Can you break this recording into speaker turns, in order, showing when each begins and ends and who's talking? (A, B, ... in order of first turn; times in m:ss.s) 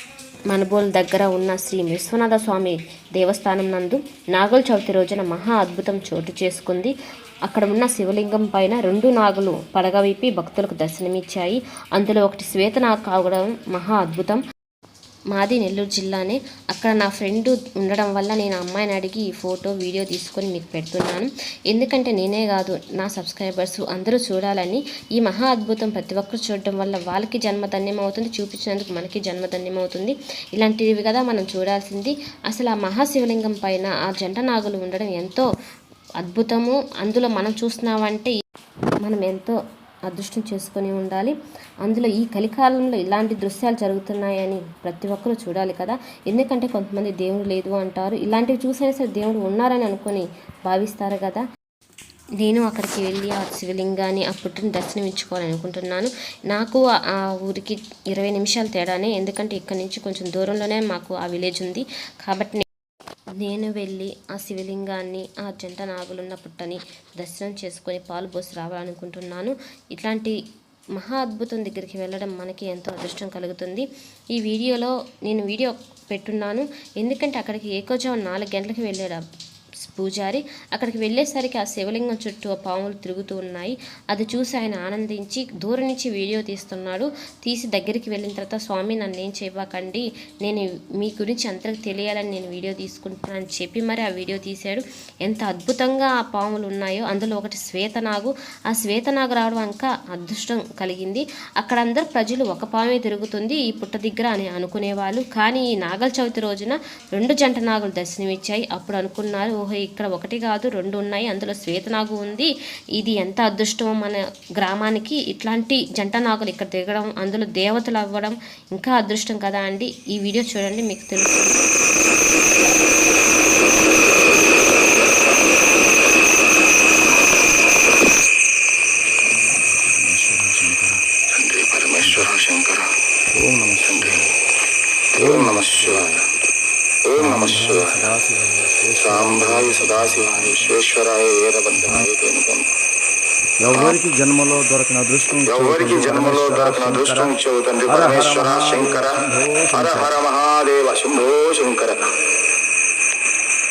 0:00.5-0:06.9 A
0:07.5-0:14.4 A
0:15.3-0:35.5 A
0:36.2-0:38.3 A
0:39.0-0:39.6 A
0:40.1-0:51.4 A
0:52.4-0:56.9 A
0:57.4-1:02.6 A
1:03.4-1:10.4 A
1:11.0-1:13.8 A
1:14.4-1:19.2 A
1:19.8-2:01.7 A
2:09.5-2:11.0 B
2:11.3-2:12.9 C
2:12.0-2:12.3 B
2:13.3-2:14.3 B
2:13.9-2:14.2 C
2:15.2-2:16.2 C
2:15.2-2:16.2 B
2:17.1-2:18.0 C
2:17.2-2:20.8 B
2:19.0-2:22.7 C
2:21.8-2:22.1 B
2:23.6-2:27.3 B
2:23.7-2:24.0 C
2:25.5-2:29.2 C
2:27.9-2:30.1 B
2:29.7-2:32.0 C